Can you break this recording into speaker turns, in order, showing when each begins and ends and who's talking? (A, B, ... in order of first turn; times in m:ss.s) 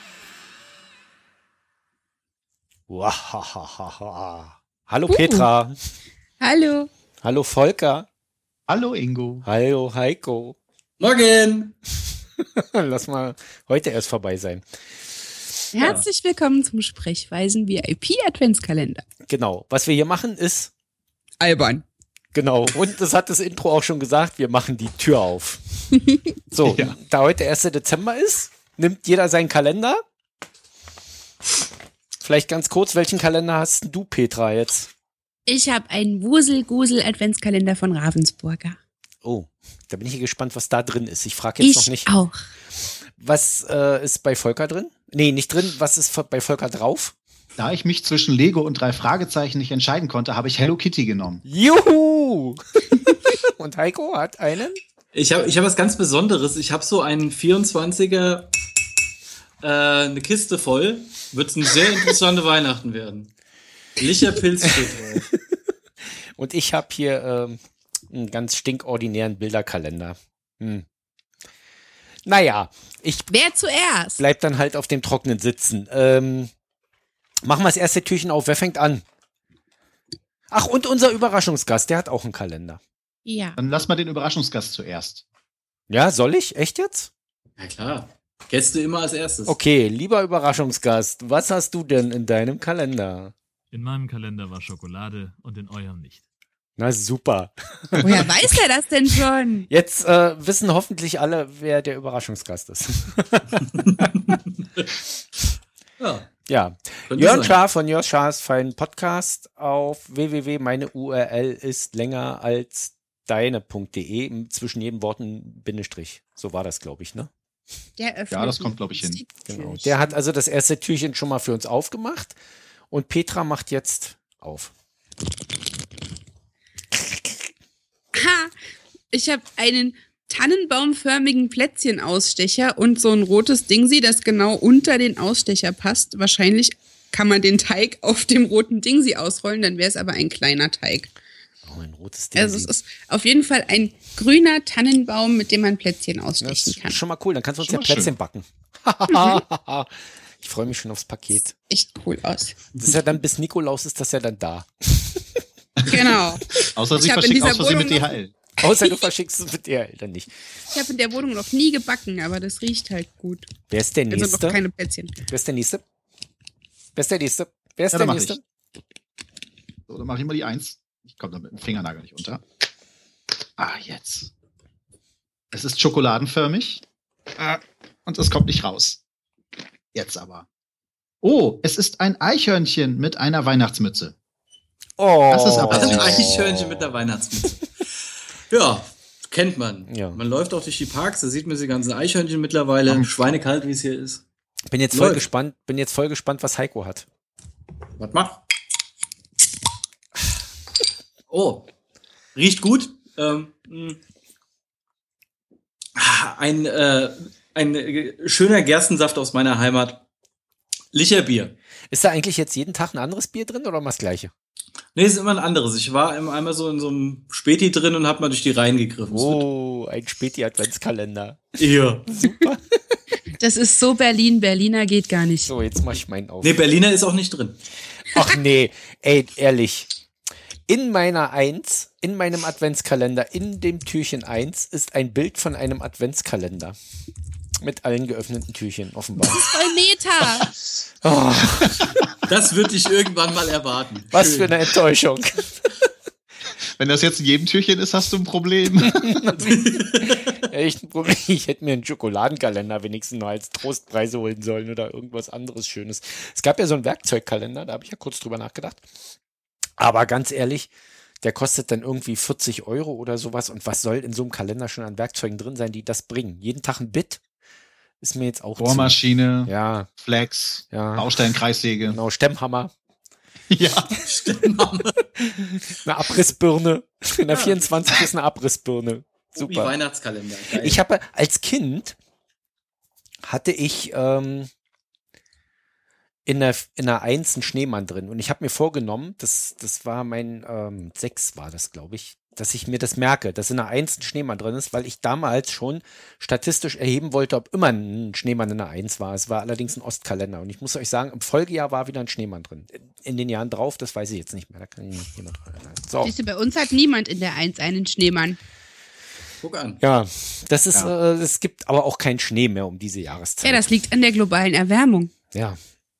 0:02.9-0:05.8 A
0:05.1-0:05.5 B
0:06.4-0:06.9 B
0:07.2-0:08.1 A
0:08.7-0:09.4 C
0:09.4-0:10.6 A
0:11.0-0:11.7 D
0:12.4-0:14.6 A
0:15.7-0:19.0 B
0:19.3-0:20.7 A
0:21.4-0:21.8 B
0:22.3-0:26.0 A
0:26.5-0:30.0 A
0:26.6-0:26.9 C
0:32.2-0:34.9 A
0:35.4-0:38.8 B
0:39.2-0:42.2 A
0:41.6-0:42.4 B
0:42.8-0:47.1 A
0:47.6-0:51.4 C
0:51.4-0:54.8 A
0:55.1-0:58.5 D
0:59.6-1:03.3 D
1:04.0-1:05.3 D
1:04.8-1:05.6 A
1:06.3-1:10.8 A
1:12.2-1:13.3 A
1:13.3-1:14.2 B
1:14.2-1:16.5 A
1:17.4-1:19.0 A
1:20.5-1:22.8 A
1:23.2-1:23.6 B
1:23.6-1:25.2 C
1:25.9-1:27.1 A
1:27.6-1:29.6 D
1:29.4-1:33.3 A
1:33.7-1:36.2 E
1:36.8-1:38.4 A
1:38.0-1:39.7 B
1:39.7-1:44.1 A
1:43.8-1:44.8 D
1:46.0-1:46.3 D
1:46.5-1:57.3 A
1:47.1-1:47.6 D
1:58.0-2:00.1 B
1:58.3-1:59.2 C
1:59.5-2:02.4 A
2:02.9-2:04.7 A
2:08.1-2:08.5 B
2:09.1-2:21.1 B
2:21.6-2:22.7 A
2:22.3-2:27.0 B
2:26.4-2:31.5 A
2:27.6-2:28.1 C
2:29.1-2:29.4 B
2:31.7-2:32.6 B
2:32.8-2:35.4 A
2:35.9-2:38.1 B
2:36.8-2:38.3 C
2:38.6-2:40.3 A
2:40.7-2:43.5 B
2:43.7-2:44.6 A
2:44.1-2:45.1 B
2:45.3-2:45.8 A
2:46.9-2:48.4 A
2:47.9-2:48.4 C
2:49.9-2:52.4 C
2:53.6-2:54.3 C
2:55.5-2:56.8 C
2:57.4-2:59.0 C
2:59.9-3:00.4 C
3:01.2-3:04.1 C
3:05.0-3:06.9 A
3:05.3-3:06.3 C
3:05.7-3:07.8 D
3:08.5-3:14.2 D
3:09.9-3:10.2 A
3:14.7-3:17.1 A
3:14.9-3:15.3 D
3:18.0-3:18.4 D
3:21.3-3:21.7 D
3:22.3-3:24.0 D
3:26.0-3:30.0 D
3:30.9-3:31.6 D
3:31.9-3:34.3 A
3:34.9-3:39.4 D
3:39.1-3:43.0 A
3:41.6-3:42.2 D
3:43.3-3:45.5 B
3:45.4-3:46.6 A
3:46.4-3:47.6 D
3:48.1-3:49.9 A
3:50.7-3:56.8 A
3:57.6-3:59.4 A
3:59.2-4:00.5 B
4:01.0-4:01.9 A
4:02.2-4:04.6 D
4:04.1-4:05.7 A
4:06.7-4:09.1 C
4:08.8-4:18.8 A
4:09.4-4:10.3 D
4:19.8-4:20.7 A
4:21.2-4:27.2 A
4:28.0-4:29.9 A
4:28.6-4:32.0 C
4:30.7-4:31.2 A
4:31.9-4:32.7 A
4:33.5-4:34.1 C
4:34.0-4:35.0 D
4:35.2-4:39.7 A
4:37.3-4:37.7 D
4:39.3-4:40.8 D
4:40.5-4:42.0 A
4:43.2-4:44.5 A
4:46.2-5:06.1 A
5:06.0-5:08.4 B
5:09.4-5:09.8 D
5:09.8-5:13.7 A
5:13.4-5:15.1 B
5:15.3-5:15.6 A